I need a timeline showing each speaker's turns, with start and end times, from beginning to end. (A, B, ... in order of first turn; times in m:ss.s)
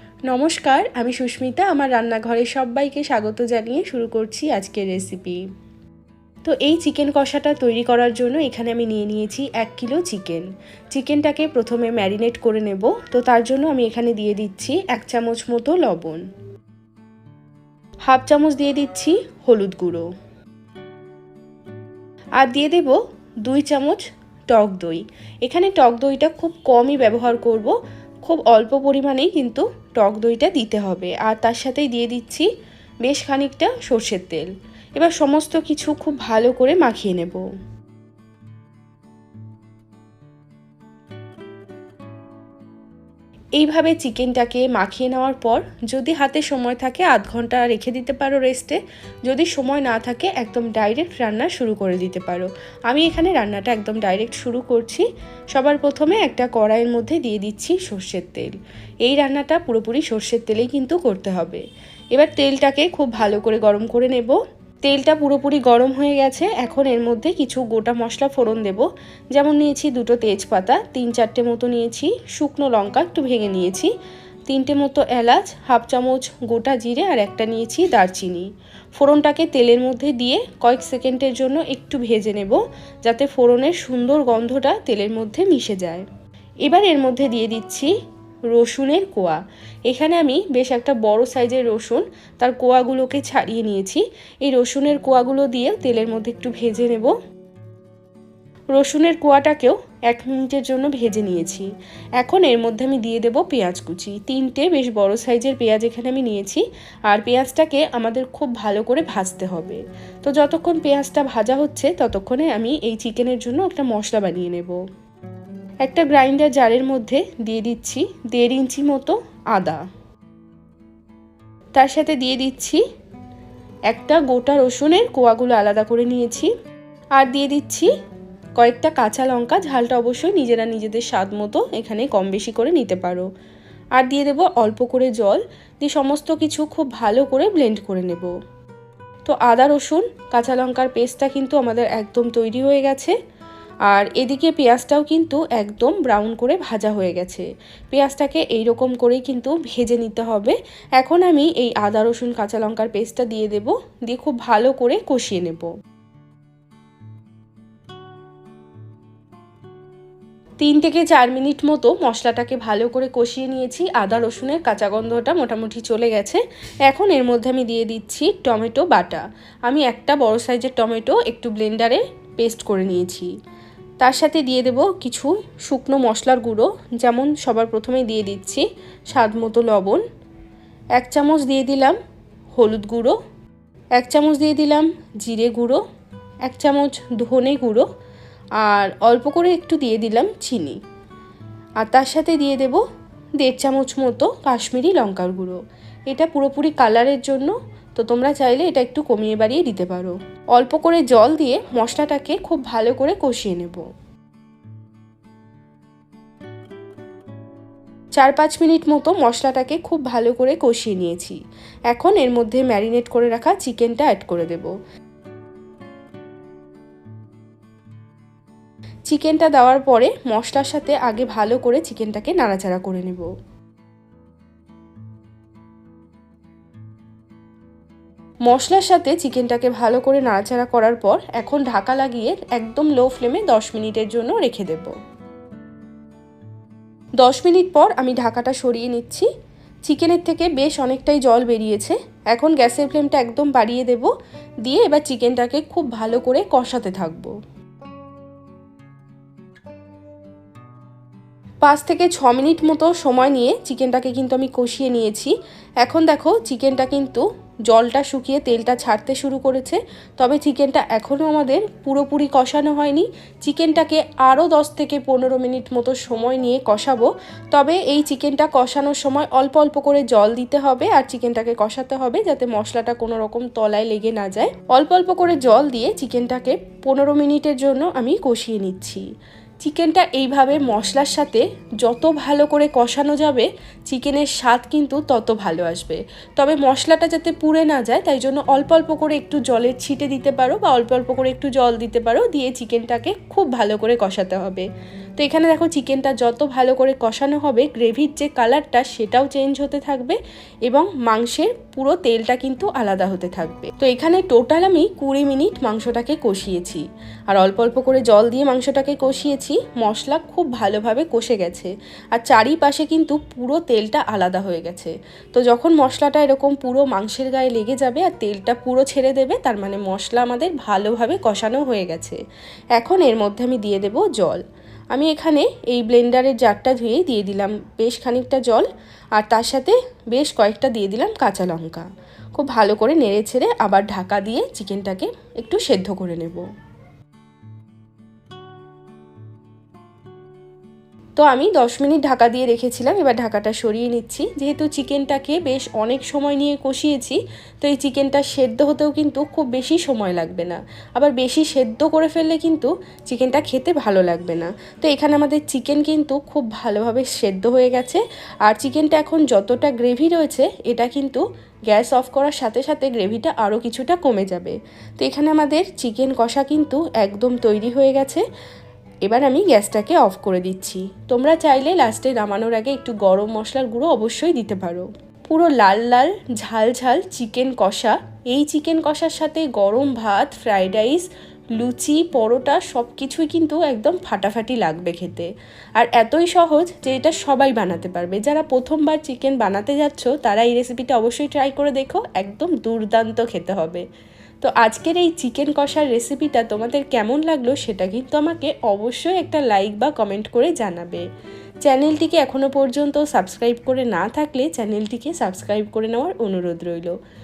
0:00.3-0:05.4 A
0:06.4-0:16.2 A
0:18.1-0:20.1 A
0:22.4-0:32.5 A
0:33.0-0:37.4 A
0:43.6-1:13.9 A
1:14.5-1:26.1 A
1:26.6-1:27.9 A
1:28.5-1:37.1 A
1:38.8-1:41.7 A
1:42.2-1:54.8 A
1:55.8-1:59.8 A
2:01.8-2:02.8 A
2:03.9-2:06.5 A
2:07.2-2:07.9 A
2:08.6-2:13.3 A
2:14.0-2:18.3 A
2:19.3-2:23.2 A
2:23.9-2:35.7 A
2:40.6-2:53.3 A
2:54.0-3:00.0 A
3:01.0-3:02.0 A
3:02.6-3:03.2 A
3:04.0-3:05.8 A
3:06.5-3:07.9 A
3:08.6-3:10.8 A
3:11.8-3:12.8 A
3:13.4-3:23.8 A
3:28.2-3:31.4 A
3:31.9-3:34.7 A
3:39.1-3:43.3 A
3:48.5-3:55.0 A
3:57.2-3:59.3 A
3:59.9-4:04.1 A
4:04.6-4:07.3 A
4:11.6-4:39.0 A
4:39.6-4:54.7 A
4:55.2-5:22.2 A
5:22.8-5:24.4 A
5:24.9-5:31.9 A
5:32.4-5:36.4 A
5:41.2-6:08.2 A
6:09.0-6:21.1 A
6:21.6-6:33.8 A
6:34.4-6:41.0 A
6:41.6-6:47.0 A